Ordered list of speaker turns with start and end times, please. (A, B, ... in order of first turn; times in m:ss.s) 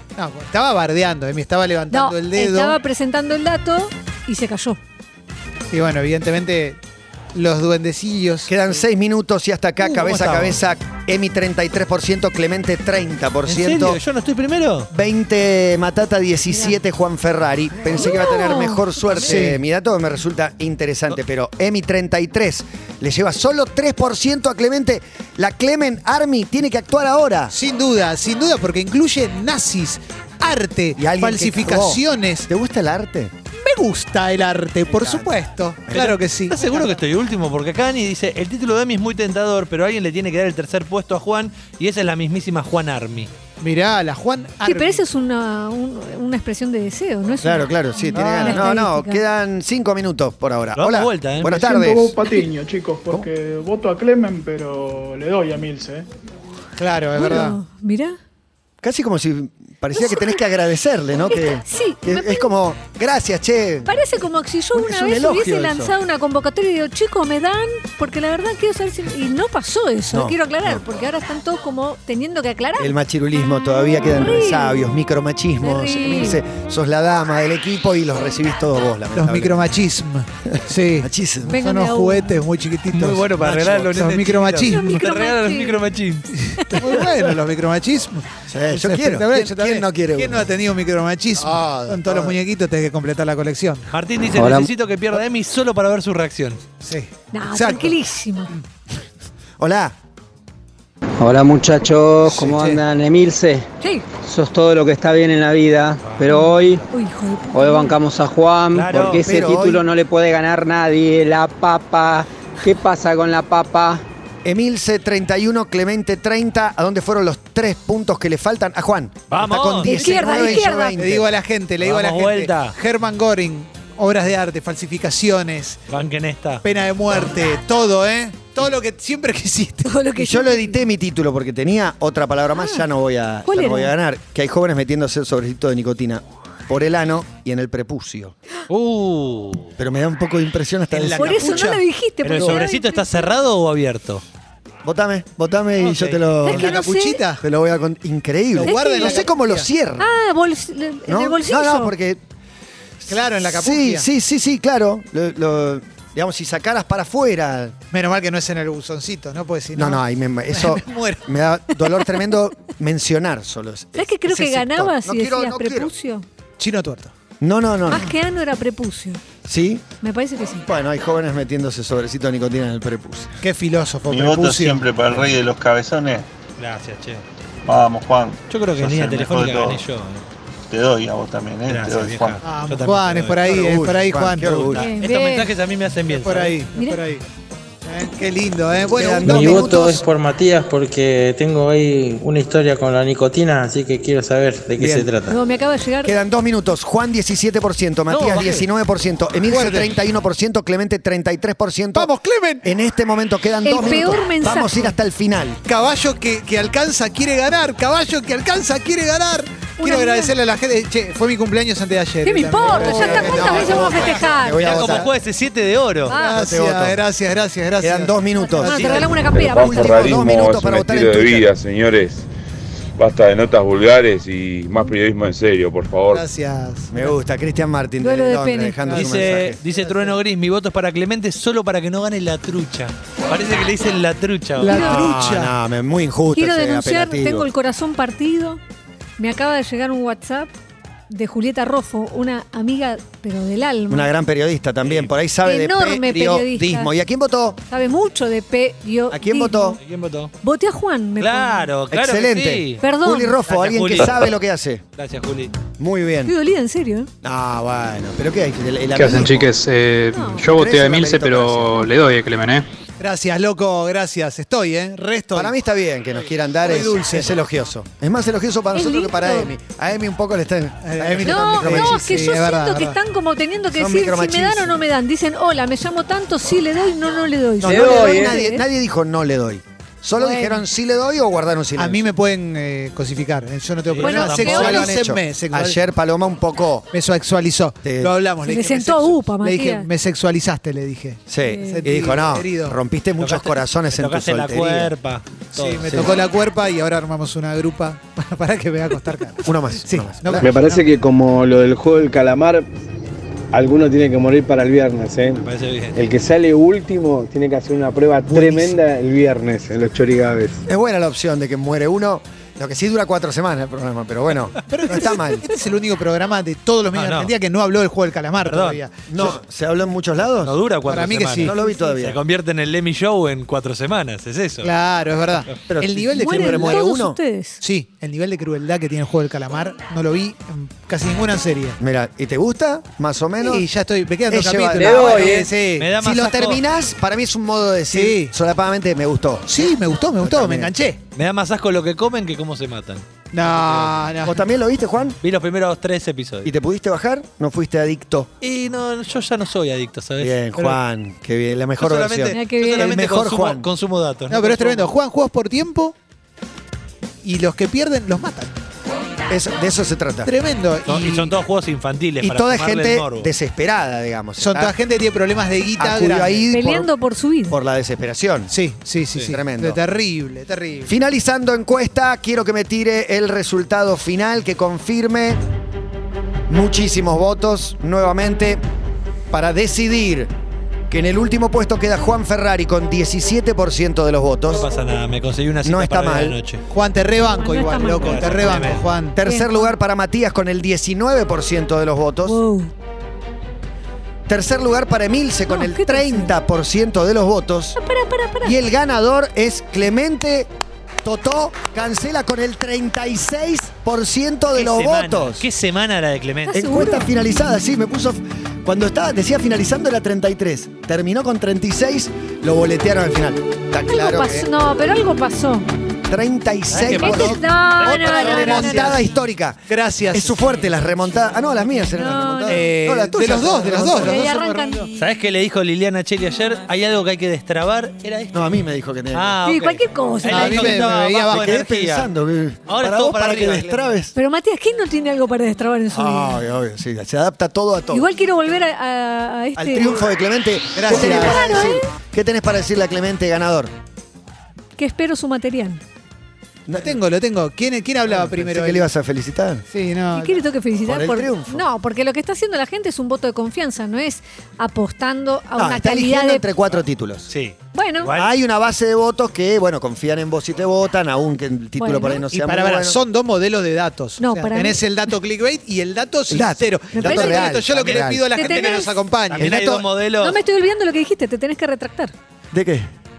0:00.2-0:02.8 A
0:01.9-0:04.8 B
0:05.7-0:06.8 A
0:07.3-0:08.5 A
0:08.5-0:14.0 C
0:09.8-0:10.6 D
0:13.4-0:14.9 D
0:14.9-0:27.5 C
0:17.9-0:18.8 B
0:19.1-0:19.4 D
0:19.2-0:19.6 A
0:27.5-0:32.5 A
0:31.0-0:33.3 C
0:33.6-0:36.9 A
0:34.9-0:35.3 C
0:35.9-0:36.2 C
0:36.5-0:43.3 D
0:43.6-0:45.0 A
0:44.6-0:49.2 B
0:47.4-0:52.2 C
0:48.1-0:48.7 A
0:50.8-0:51.6 D
0:51.5-0:56.1 E
0:56.8-0:57.6 A
0:57.1-0:58.2 B
0:58.8-1:04.0 C
0:59.9-1:00.4 B
1:01.3-1:02.5 B
1:03.8-1:12.9 B
1:04.7-1:05.9 C
1:10.1-1:10.8 C
1:12.8-1:19.6 C
1:14.0-1:14.9 B
1:15.6-1:16.4 B
1:19.2-1:23.3 A
1:20.5-1:21.6 C
1:21.5-1:22.4 B
1:22.9-1:26.3 D
1:23.4-1:23.9 C
1:23.9-1:24.8 A
1:24.7-1:25.9 B
1:26.4-1:33.9 A
1:26.6-1:27.0 B
1:28.5-1:30.5 C
1:31.4-1:32.4 C
1:33.9-1:36.6 D
1:34.3-1:34.7 F
1:36.8-1:37.9 A
1:37.3-1:38.5 B
1:39.6-1:40.0 C
1:41.2-1:43.7 F
1:42.2-1:42.8 A
1:44.2-1:46.8 F
1:46.0-1:46.5 D
1:46.2-1:48.0 B
1:47.5-1:54.0 F
1:48.7-1:49.3 D
1:49.0-1:49.8 C
1:54.4-2:01.3 C
1:59.3-2:00.1 D
1:59.8-2:01.0 B
2:00.4-2:05.8 A
2:01.8-2:02.7 D
2:05.9-2:06.6 D
2:06.6-2:09.9 A
2:09.8-2:10.8 B
2:10.2-2:18.3 C
2:12.5-2:12.8 B
2:13.4-2:13.9 B
2:18.7-2:19.7 D
2:19.8-2:22.6 C
2:20.9-2:21.7 D
2:21.2-2:23.3 B
2:22.2-2:24.2 D
2:24.8-2:26.9 C
2:25.8-2:26.2 D
2:26.4-2:27.2 B
2:26.4-2:27.4 A
2:27.4-2:30.1 C
2:28.5-2:29.7 A
2:28.6-2:29.3 B
2:30.0-2:31.9 B
2:31.1-2:32.2 C
2:33.0-2:37.8 C
2:33.1-2:34.1 A
2:37.9-2:41.2 A
2:39.7-2:45.9 C
2:44.0-2:46.2 B
2:46.6-2:47.1 A
2:47.4-2:48.1 C
2:47.9-2:49.2 B
2:49.4-2:49.8 C
2:50.0-2:50.7 B
2:50.6-2:53.4 C
2:53.4-2:54.9 A
2:54.1-2:56.3 G
2:56.6-2:57.2 D
2:57.6-2:59.8 G
2:58.5-3:00.2 D
3:00.7-3:02.4 G
3:01.7-3:03.8 D
3:02.4-3:04.7 A
3:03.5-3:04.9 C
3:04.4-3:06.6 D
3:04.8-3:05.5 B
3:06.1-3:07.2 A
3:06.7-3:07.0 B
3:07.8-3:10.0 A
3:08.9-3:10.0 C
3:09.2-3:15.4 H
3:14.8-3:15.1 A
3:15.3-3:16.2 B
3:16.0-3:22.1 C
3:18.1-3:18.6 D
3:19.5-3:19.9 A
3:21.9-3:22.6 A
3:22.6-3:25.6 C
3:23.6-3:25.0 B
3:25.6-3:35.1 A
3:29.8-3:30.3 B
3:32.2-3:34.8 B
3:32.6-3:35.1 C
3:34.6-3:36.1 D
3:36.1-3:36.4 B
3:36.1-3:37.0 C
3:36.1-3:39.0 A
3:37.8-3:41.5 C
3:38.4-3:40.2 B
3:38.7-3:39.0 D
3:39.4-3:42.2 I
3:43.0-3:46.2 I
3:46.1-3:47.2 A
3:46.9-3:49.6 C
3:48.0-3:48.9 B
3:48.8-3:50.2 A
3:48.9-3:54.7 D
3:54.6-3:55.5 A
3:54.6-3:55.1 B
3:54.7-3:57.5 C
3:56.3-3:58.6 B
3:59.2-4:00.5 B
4:01.1-4:04.1 B
4:03.9-4:07.6 C
4:04.8-4:05.1 D
4:05.4-4:06.9 B
4:07.7-4:09.8 B
4:09.1-4:09.8 C
4:09.8-4:10.3 D
4:10.4-4:11.7 B
4:11.2-4:12.8 D
4:11.9-4:14.8 C
4:12.8-4:13.4 B
4:13.5-4:14.3 D
4:15.0-4:15.5 D
4:15.8-4:16.3 C
4:16.2-4:17.1 B
4:17.2-4:19.6 C
4:19.0-4:22.6 J
4:20.1-4:20.6 B
4:20.4-4:21.9 C
4:23.0-4:25.5 A
4:25.3-4:32.4 C
4:26.6-4:27.3 A
4:28.7-4:29.5 B
4:30.8-4:33.0 A
4:31.2-4:38.6 B
4:33.7-4:34.8 C
4:37.6-4:42.0 C
4:37.6-4:38.4 K
4:40.2-4:40.6 B
4:41.8-4:45.8 A
4:43.9-4:44.9 D
4:44.0-4:46.9 C
4:44.0-4:44.9 B
4:46.9-4:52.8 A
4:47.8-4:48.1 C
4:48.4-4:49.9 B
4:51.3-4:54.9 C
4:51.4-4:51.8 B
4:53.2-4:56.0 D
4:55.5-5:00.8 A
4:55.8-4:56.1 C
4:59.4-5:00.5 C
5:00.4-5:02.6 K
5:03.5-5:10.6 K
5:05.4-5:06.0 D
5:08.3-5:08.7 A
5:10.7-5:15.4 C
5:14.7-5:19.3 A
5:16.9-5:17.3 D
5:18.4-5:18.8 D
5:19.1-5:20.6 C
5:20.4-5:24.7 D
5:20.9-5:21.5 A
5:21.4-5:22.2 C
5:21.6-5:22.0 B
5:24.6-5:26.8 A
5:25.7-5:27.2 C
5:26.2-5:27.6 B
5:27.6-5:31.8 A
5:31.8-5:33.7 C
5:33.4-5:36.0 A
5:34.3-5:40.7 C
5:34.8-5:35.5 K
5:35.8-5:36.6 D
5:37.9-5:38.3 A
5:39.5-5:41.0 A
5:41.1-5:43.9 D
5:43.3-5:44.4 A
5:44.2-5:45.2 C
5:45.2-5:46.5 D
5:46.4-5:48.3 C
5:48.4-5:50.8 D
5:50.2-5:53.7 C
5:51.8-5:54.9 D
5:52.3-5:52.9 B
5:54.3-5:56.0 A
5:57.2-5:58.5 A
5:59.3-6:00.3 C
6:00.2-6:01.3 A
6:00.8-6:03.3 D
6:02.2-6:04.7 C
6:04.4-6:06.5 A
6:05.8-6:06.9 C
6:06.5-6:07.6 B
6:07.5-6:08.5 C
6:08.5-6:10.9 A
6:09.3-6:09.8 C
6:10.8-6:15.4 C
6:16.5-6:18.6 C
6:19.3-6:20.3 C
6:20.9-6:24.7 C
6:24.5-6:26.6 D
6:25.6-6:26.4 C
6:26.7-6:29.2 A
6:27.2-6:28.5 B
6:27.8-6:28.9 D
6:29.2-6:32.4 C
6:29.2-6:29.7 B
6:32.2-6:32.7 B
6:34.3-6:37.8 C
6:35.5-6:36.3 B
6:37.8-6:38.6 B
6:38.4-6:40.5 C
6:41.0-6:45.4 C
6:44.5-6:46.6 D
6:46.5-6:47.1 B
6:46.5-6:54.5 C
6:53.8-6:55.7 B
6:56.1-7:04.3 C
6:56.7-6:58.2 D
6:56.9-6:59.0 B
6:57.9-6:59.0 A
6:59.7-7:00.4 A
7:01.9-7:02.6 B
7:02.4-7:04.9 A
7:03.7-7:04.9 B
7:05.0-7:08.4 D
7:08.3-7:09.4 C
7:09.1-7:12.1 D
7:09.4-7:10.9 B
7:10.3-7:11.7 A
7:11.3-7:14.1 C
7:12.7-7:13.9 D
7:14.1-7:16.4 B
7:15.9-7:18.1 C
7:17.9-7:20.0 B
7:19.6-7:23.7 C
7:20.8-7:21.5 A
7:20.9-7:21.9 B
7:24.8-7:25.8 B
7:26.7-7:27.0 C
7:26.8-7:28.9 A
7:28.1-7:29.6 C
7:29.7-7:30.4 A
7:30.1-7:36.4 B
7:30.9-7:31.6 C
7:35.6-7:37.3 C
7:37.3-7:38.3 D
7:37.7-7:38.1 B
7:38.1-7:43.0 C
7:41.8-7:42.2 B
7:42.2-7:49.8 A
7:44.2-7:44.8 B
7:46.3-7:48.8 C
7:47.0-7:47.7 B
7:47.8-7:48.1 D
7:48.3-7:49.0 B
7:49.3-7:50.4 D
7:49.4-7:49.8 C
7:50.2-7:52.1 B
7:52.5-7:52.9 C